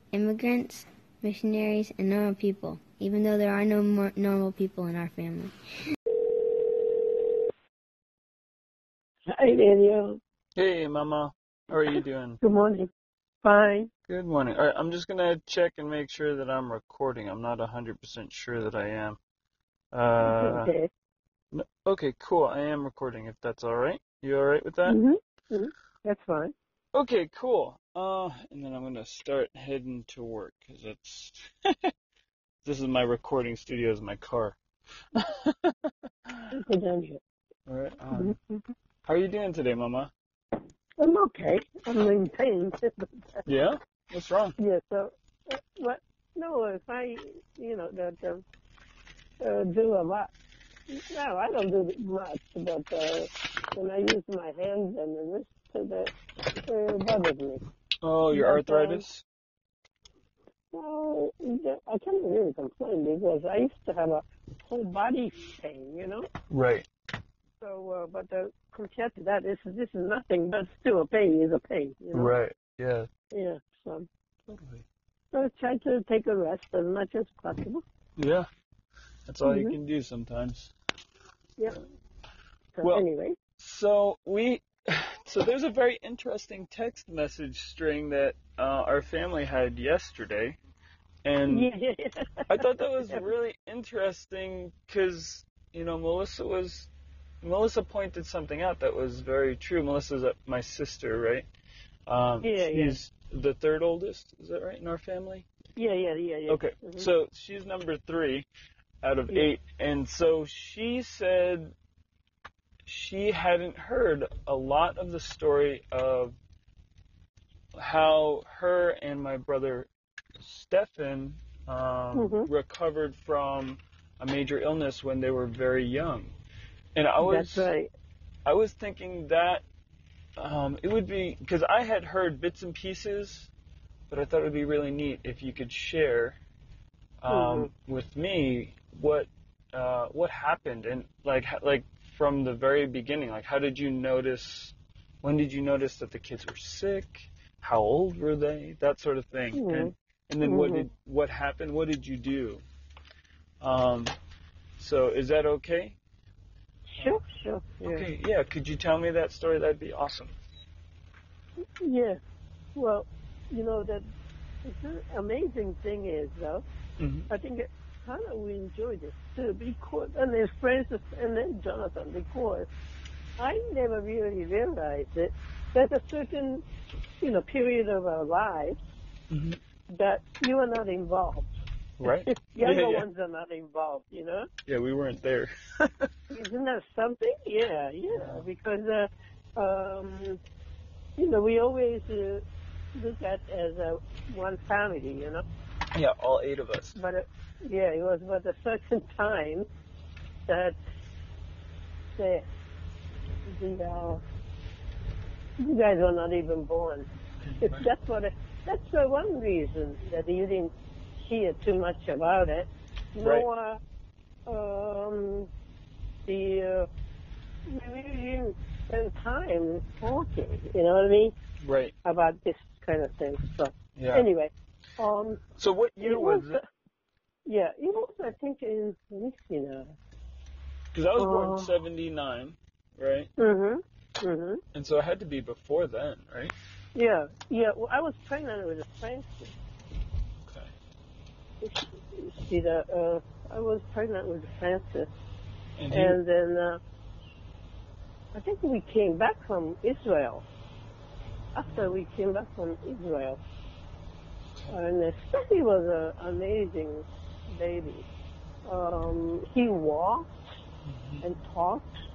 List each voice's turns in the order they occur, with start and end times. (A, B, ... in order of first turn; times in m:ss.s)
0:00.1-0:05.6 A
0:09.3-0:10.2 B
0:10.6-0:12.4 C
0:12.4-0:12.9 B
0:13.4-0:13.9 B
0:14.1-0:19.2 C
0:19.9-0:20.7 C
0:20.2-0:20.9 B
0:21.5-0:25.0 C
0:24.8-0:26.5 B
0:26.9-0:31.9 C
0:32.6-0:34.6 C
0:35.1-0:36.6 C
0:36.5-0:37.2 B
0:37.7-0:38.4 C
0:38.1-0:38.6 B
0:39.0-0:40.1 C
0:41.0-0:43.4 B
0:43.5-0:44.6 C
0:44.6-0:48.4 B
0:49.4-0:50.3 B
0:50.9-0:56.1 B
0:56.6-0:57.6 B
0:58.0-0:59.2 C
0:58.3-0:59.0 B
1:00.7-1:06.3 B
1:06.5-1:06.9 C
1:07.6-1:12.3 B
1:12.1-1:13.1 C
1:13.3-1:14.1 B
1:14.5-1:14.8 C
1:15.3-1:17.8 B
1:18.2-1:18.5 C
1:19.3-1:20.7 C
1:19.4-1:19.8 B
1:22.8-1:23.4 B
1:23.6-1:30.6 C
1:31.2-1:31.7 C
1:31.5-1:33.3 B
1:32.5-1:36.9 C
1:37.4-1:41.5 C
1:42.1-1:45.5 C
1:42.4-1:43.0 B
1:45.8-1:47.1 B
1:46.5-1:48.5 C
1:49.0-1:51.7 C
1:52.9-1:56.4 C
1:57.8-2:06.4 C
2:02.1-2:02.5 B
2:07.0-2:07.7 C
2:07.2-2:07.9 B
2:08.5-2:09.6 C
2:10.4-2:13.5 C
2:14.1-2:16.4 C
2:17.2-2:32.6 C
2:17.3-2:17.7 B
2:29.5-2:30.9 B
2:33.6-2:34.1 C
2:34.8-2:36.0 C
2:36.9-2:38.1 B
2:37.8-2:40.4 C
2:41.6-2:42.2 B
2:42.8-2:44.0 B
2:44.6-2:46.6 B
2:47.0-2:47.3 C
2:47.3-2:52.7 B
2:53.4-2:56.6 B
2:57.2-2:58.8 B
2:59.3-2:59.6 C
2:59.9-3:01.5 B
3:02.0-3:03.1 C
3:02.1-3:04.5 B
3:04.7-3:06.1 C
3:06.3-3:10.4 B
3:08.1-3:08.4 C
3:11.2-3:12.4 B
3:13.0-3:15.4 B
3:15.9-3:17.0 C
3:17.0-3:19.7 B
3:20.5-3:20.8 B
3:22.2-3:22.5 B
3:23.5-3:24.2 B
3:25.6-3:27.1 B
3:27.4-3:27.9 C
3:27.6-3:33.8 B
3:34.5-3:35.5 B
3:36.3-3:36.9 B
3:37.7-3:41.4 B
3:41.6-3:42.0 C
3:42.0-3:45.4 B
3:44.0-3:44.3 C
3:45.6-3:46.6 C
3:46.0-3:46.6 B
3:47.5-3:50.0 B
3:50.9-3:53.3 C
3:51.2-3:51.7 B
3:53.4-3:54.6 B
3:54.7-3:56.5 C
3:57.0-3:59.6 B
4:00.4-4:00.7 C
4:01.6-4:05.1 B
4:05.8-4:06.2 C
4:05.9-4:06.8 B
4:08.3-4:10.4 B
4:11.6-4:13.4 B
4:11.7-4:12.0 C
4:14.7-4:18.1 B
4:18.6-4:20.3 B
4:20.8-4:21.2 C
4:21.2-4:21.9 B